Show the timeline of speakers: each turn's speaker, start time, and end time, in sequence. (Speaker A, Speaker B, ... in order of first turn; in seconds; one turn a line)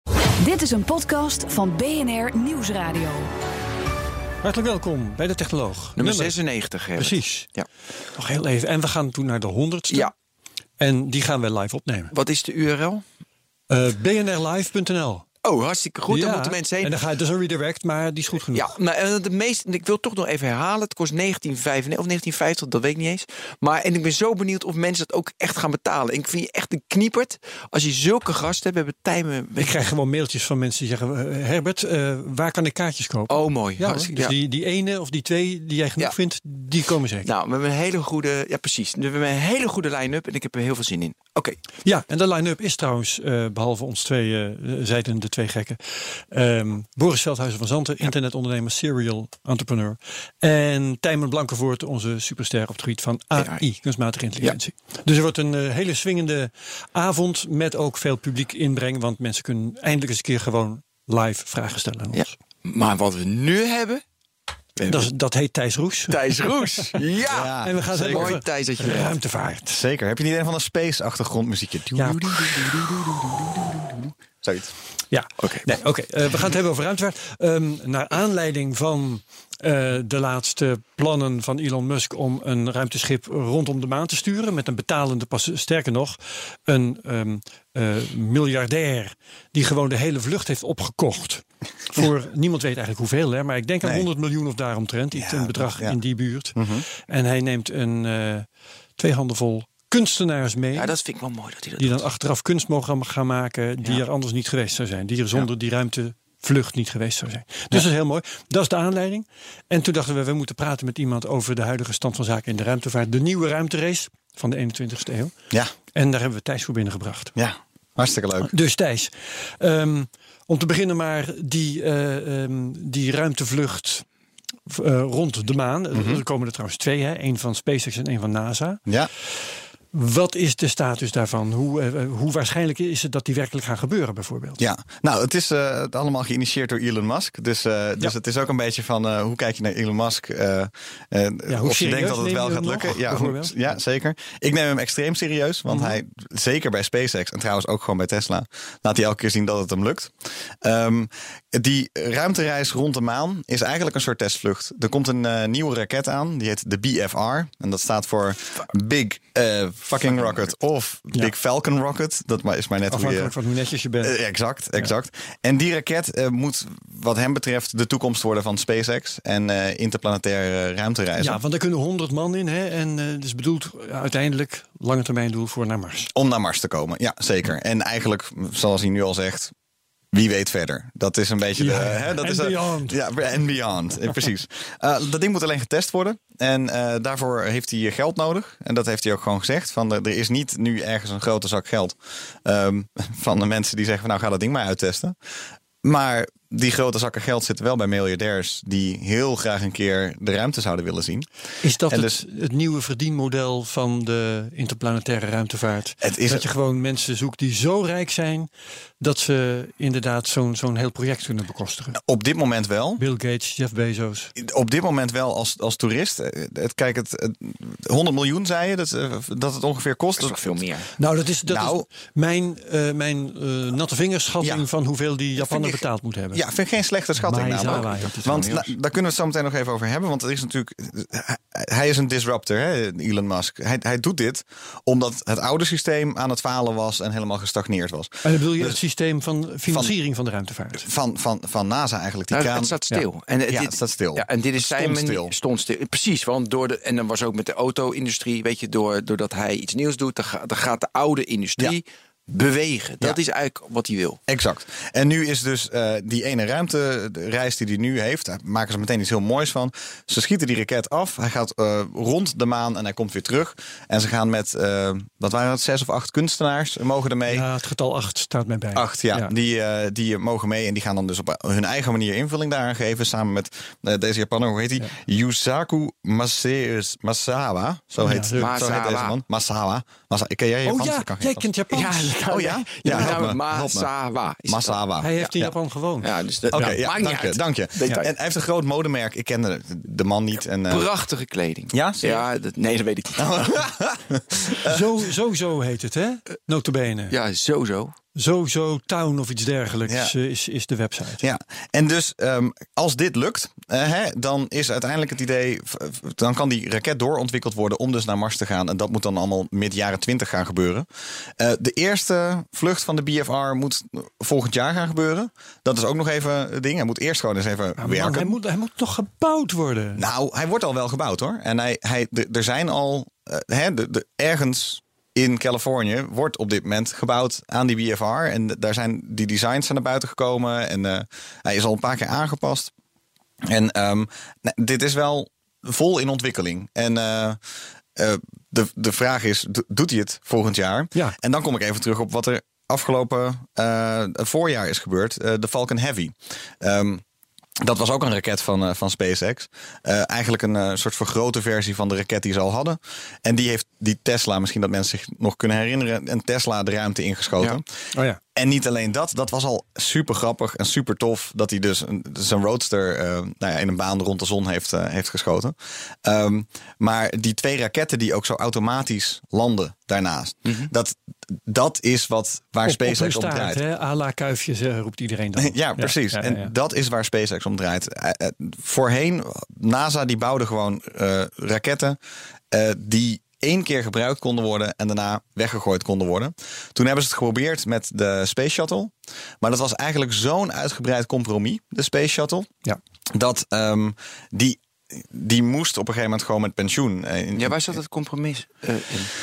Speaker A: 0.4-3.3
Speaker B: 4.4-6.3
Speaker C: 6.0-7.7
Speaker B: 7.0-7.5
Speaker B: 8.1-10.1
Speaker B: 10.8-12.1
Speaker C: 12.1-13.0
Speaker B: 13.7-15.2
Speaker C: 15.4-16.9
Speaker B: 16.1-18.7
Speaker C: 18.5-29.8
Speaker B: 29.6-37.3
Speaker C: 33.3-34.3
Speaker C: 37.2-41.6
Speaker B: 41.8-62.3
Speaker C: 53.4-53.6
Speaker C: 62.1-64.0
Speaker C: 64.8-65.0
Speaker B: 64.9-66.2
Speaker C: 66.1-69.2
Speaker D: 67.3-68.3
Speaker B: 67.6-69.7
Speaker D: 69.7-73.6
Speaker B: 71.9-73.6
Speaker D: 74.4-74.7
Speaker B: 75.1-98.5
Speaker D: 95.1-96.0
Speaker D: 96.5-96.8
Speaker B: 99.0-100.9
Speaker C: 100.7-102.0
Speaker B: 101.8-115.3
Speaker B: 115.9-117.3
Speaker D: 117.3-118.5
Speaker B: 118.4-124.0
Speaker B: 124.7-128.8
Speaker D: 125.9-126.2
Speaker B: 129.9-134.6
Speaker D: 134.6-163.3
Speaker B: 141.5-143.7
Speaker C: 160.1-160.4
Speaker B: 162.9-164.2
Speaker D: 164.0-171.4
Speaker B: 171.2-176.1
Speaker D: 176.1-179.5
Speaker D: 180.1-195.2
Speaker B: 181.6-183.0
Speaker D: 195.8-201.3
Speaker B: 201.6-208.5
Speaker D: 201.9-202.2
Speaker D: 206.0-206.4
Speaker B: 209.0-212.0
Speaker D: 211.9-213.0
Speaker B: 213.0-214.3
Speaker D: 214.4-220.4
Speaker C: 220.2-220.9
Speaker B: 221.0-226.4
Speaker D: 221.5-221.8
Speaker D: 225.4-225.8
Speaker D: 226.3-238.8
Speaker B: 227.2-228.5
Speaker C: 227.6-228.7
Speaker B: 238.2-240.9
Speaker D: 239.7-239.9
Speaker D: 240.8-242.7
Speaker C: 242.3-254.2
Speaker D: 243.5-245.3
Speaker D: 254.3-267.4
Speaker B: 267.3-269.3
Speaker D: 268.7-281.5
Speaker B: 278.0-278.6
Speaker C: 278.4-279.2
Speaker B: 280.6-283.2
Speaker C: 281.7-285.3
Speaker D: 282.3-283.9
Speaker D: 284.5-285.5
Speaker B: 285.0-286.8
Speaker C: 286.0-288.1
Speaker D: 286.5-290.9
Speaker C: 290.7-293.5
Speaker D: 291.7-292.2
Speaker D: 293.2-294.8
Speaker B: 294.5-297.1
Speaker C: 297.1-297.9
Speaker B: 298.1-301.2
Speaker D: 299.9-300.1
Speaker D: 301.2-318.4
Speaker B: 317.8-320.0
Speaker D: 320.0-332.7
Speaker D: 333.4-337.4
Speaker D: 337.9-347.0
Speaker D: 347.6-357.6
Speaker B: 357.9-358.2
Speaker D: 358.3-373.6
Speaker B: 372.6-376.5
Speaker D: 375.4-382.0
Speaker D: 382.5-392.5
Speaker D: 393.1-397.7
Speaker C: 397.3-399.1